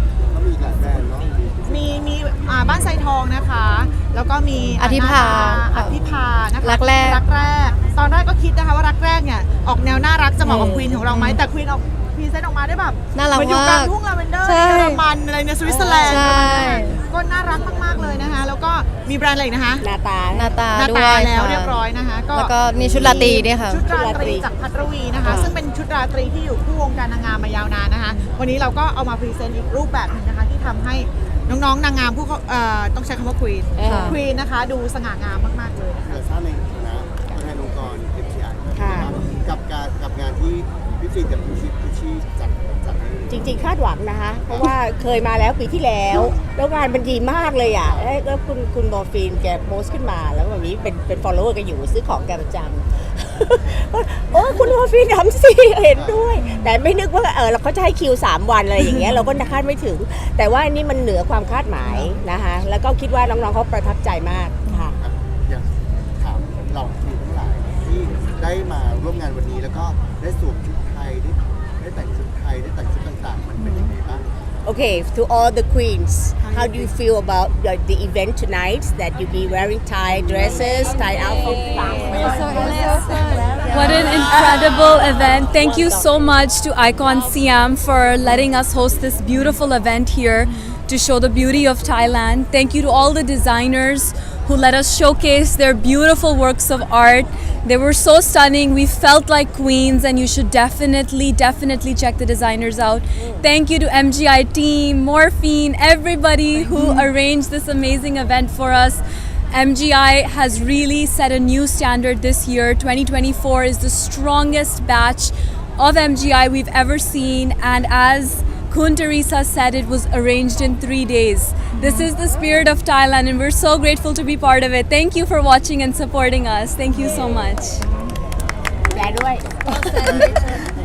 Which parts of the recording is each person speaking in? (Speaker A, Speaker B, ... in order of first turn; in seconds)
Speaker A: 0.2-2.0, 28.2-28.5, 36.0-43.7, 44.4-44.7, 46.1-46.4, 55.9-56.4, 65.0-65.7, 66.2-74.3
Speaker B: 1.7-19.9, 20.7-36.1
Speaker C: 4.8-5.9, 6.6-7.2, 10.5-11.4, 13.2-15.0, 15.7-17.0, 20.3-21.8, 22.3-23.8, 33.8-34.2, 73.6-73.9, 82.1-83.8, 129.7-130.5
Speaker D: 10.4-11.0, 19.8-20.5, 23.8-24.5, 33.8-34.1, 38.8-39.1, 43.3-65.0, 74.7-84.7, 85.5-86.1, 103.2-103.4, 128.9-130.5
Speaker E: 82.3-82.8, 83.7-127.8